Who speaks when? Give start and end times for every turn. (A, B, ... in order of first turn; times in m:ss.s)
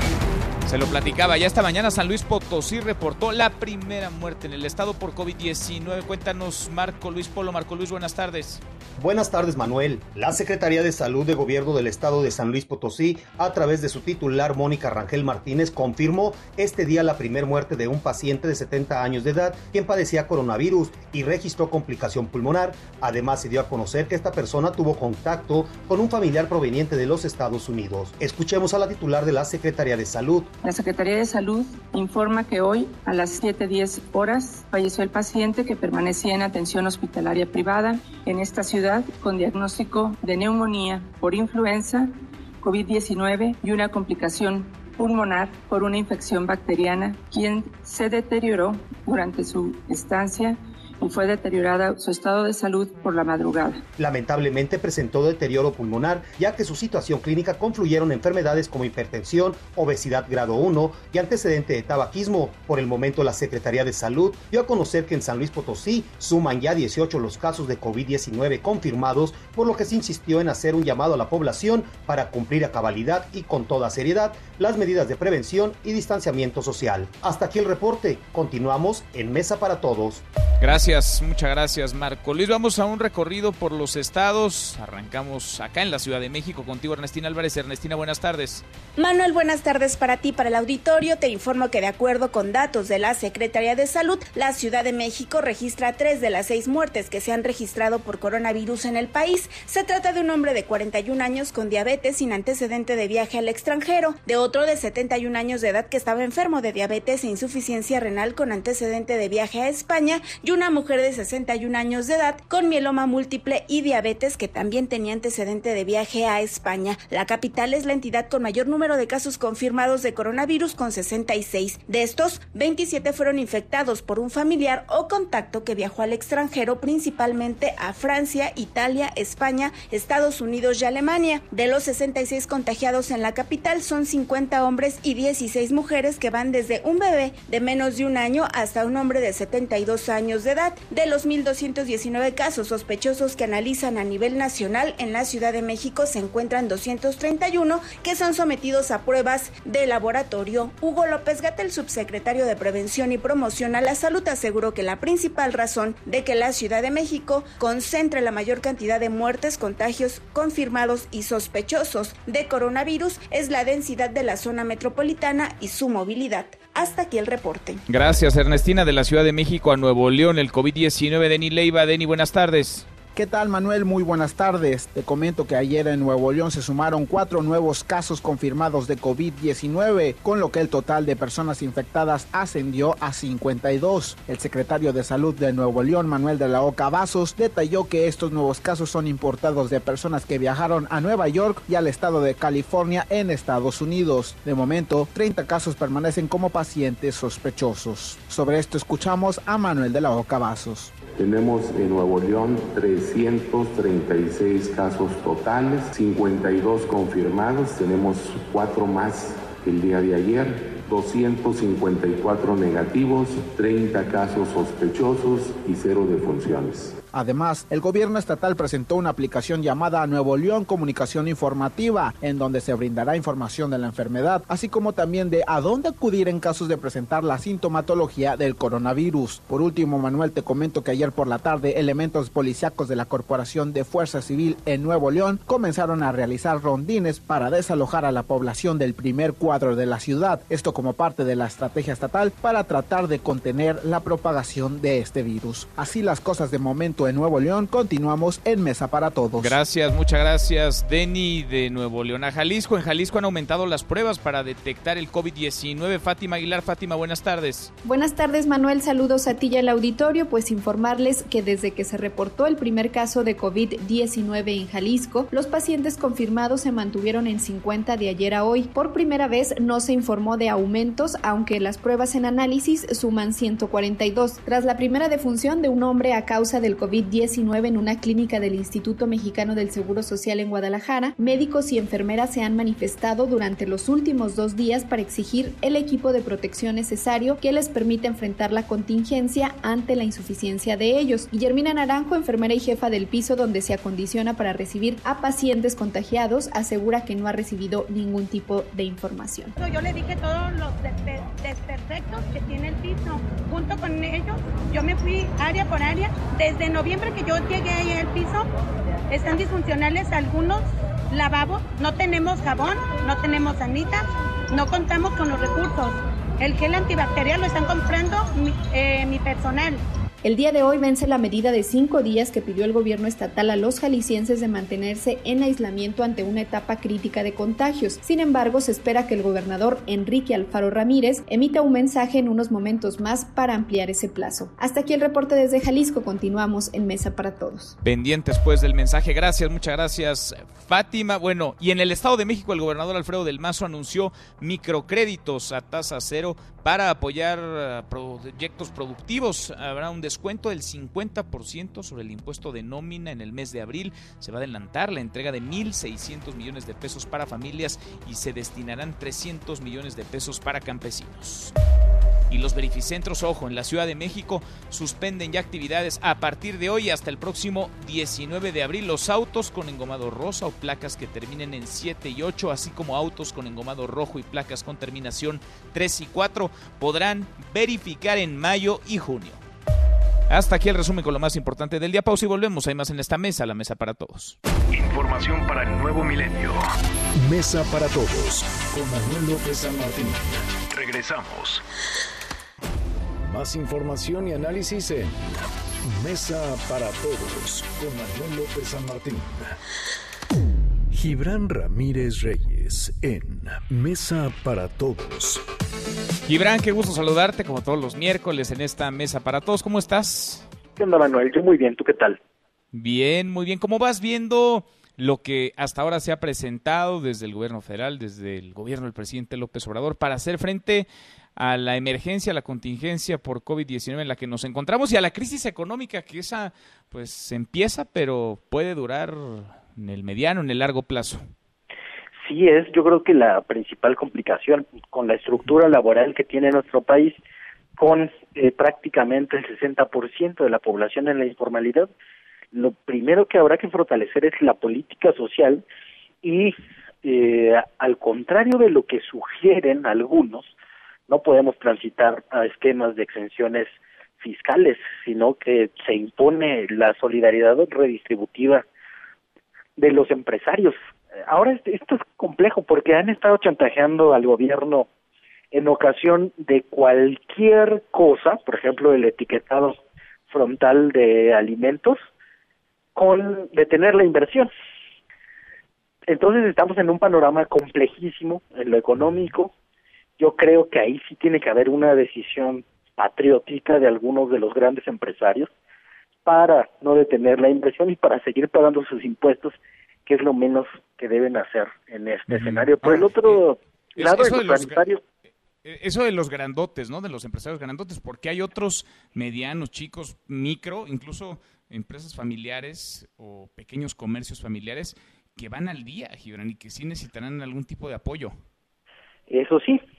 0:00.6-0:08.6 A
0:09.0-0:30.5 B
0:30.6-0:53.8 C
0:54.0-1:20.2 B
1:20.6-1:28.6 A
1:29.0-2:47.8 D
2:47.9-2:52.9 A
2:53.2-3:20.9 E
3:21.1-3:36.9 F
3:37.1-4:09.6 E
4:09.4-4:17.7 A
4:17.8-4:59.5 G
4:59.6-5:08.4 H
5:09.1-5:19.8 H
5:20.2-5:37.7 G
5:37.8-6:01.5 A
6:02.3-6:19.4 A
6:20.3-6:24.4 A
6:24.7-6:26.6 I
6:27.2-6:31.6 I
6:33.2-6:39.6 I
6:40.9-6:45.4 I
6:46.2-6:50.5 A
6:50.8-6:52.2 J
6:52.7-7:11.3 A
7:12.2-7:17.2 J
7:17.8-7:21.9 J
7:22.5-7:25.6 J
7:26.2-7:30.5 J
7:31.1-7:38.6 J
7:39.8-7:44.9 J
7:45.5-7:49.8 J
7:50.3-7:52.0 J
7:53.0-7:54.5 J
7:56.1-7:59.5 J
8:00.2-8:05.5 J
8:06.2-8:15.0 J
8:12.3-8:13.4 A
8:14.0-8:14.8 A
8:15.6-8:28.4 A
8:29.3-8:29.8 J